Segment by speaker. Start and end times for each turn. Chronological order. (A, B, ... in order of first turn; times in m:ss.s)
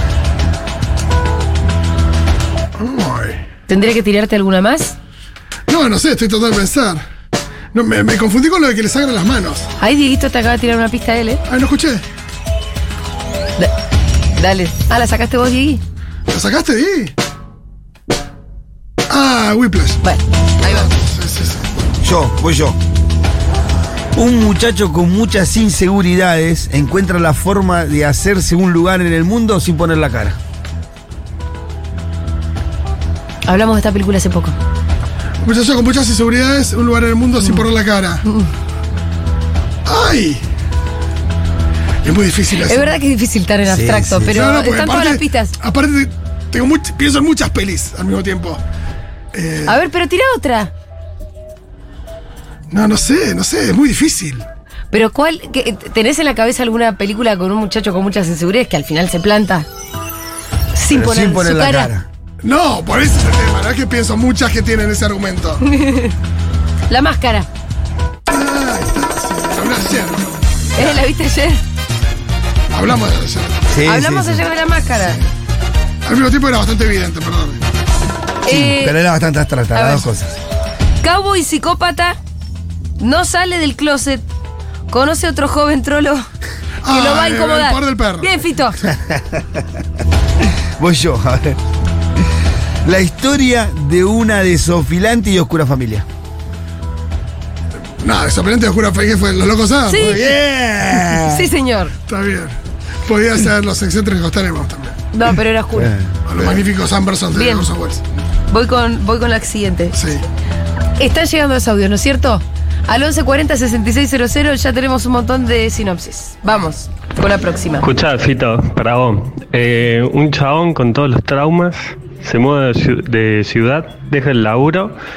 0:02.8-0:03.4 A
0:03.7-0:05.0 B
0:05.7-0:07.0 A
0:07.7-0:09.7 A
0:09.8-0:11.4 B
0:11.5-0:12.0 A
0:14.4-0:15.8 B
0:16.3-0:17.1 A
0:19.1-0:20.0 A
0:20.0-0:20.9 B
0:20.6-0:21.8 A
0:22.0-0:22.8 C
0:24.2-0:30.4 C
0:33.5-0:34.6 B
0:35.4-0:38.2 A
0:39.9-0:40.4 A
0:42.0-0:43.0 A
0:42.7-0:45.6 B
0:43.7-0:44.4 C
0:44.3-0:48.6 A
0:49.3-0:49.8 A
0:49.7-0:50.7 B
0:52.7-0:54.5 A
0:54.9-0:59.7 B
1:00.8-1:01.9 B
1:00.9-1:02.1 C
1:02.4-1:05.6 A
1:05.6-1:06.1 B
1:06.9-1:07.5 B
1:08.3-1:11.0 A
1:10.8-1:11.6 B
1:12.7-1:13.8 A
1:13.7-1:14.4 C
1:13.8-1:15.2 B
1:16.0-1:17.6 A
1:18.4-1:19.0 B
1:18.5-1:20.4 C
1:19.7-1:20.1 B
1:21.0-1:22.2 B
1:23.0-1:24.2 B
1:24.9-1:26.2 B
1:26.8-1:28.3 A
1:26.9-1:28.8 B
1:28.8-1:29.6 C
1:30.8-1:31.6 C
1:32.8-1:36.1 C
1:38.0-1:40.0 A
1:39.9-1:40.3 B
1:40.0-1:41.5 C
1:41.1-1:41.9 B
1:42.1-1:45.0 A
1:45.1-1:45.9 B
1:45.8-1:46.2 C
1:46.3-1:48.0 A
1:47.3-1:47.7 B
1:48.5-1:50.0 B
1:49.9-1:50.2 A
1:51.0-1:57.9 B
1:57.8-2:05.0 D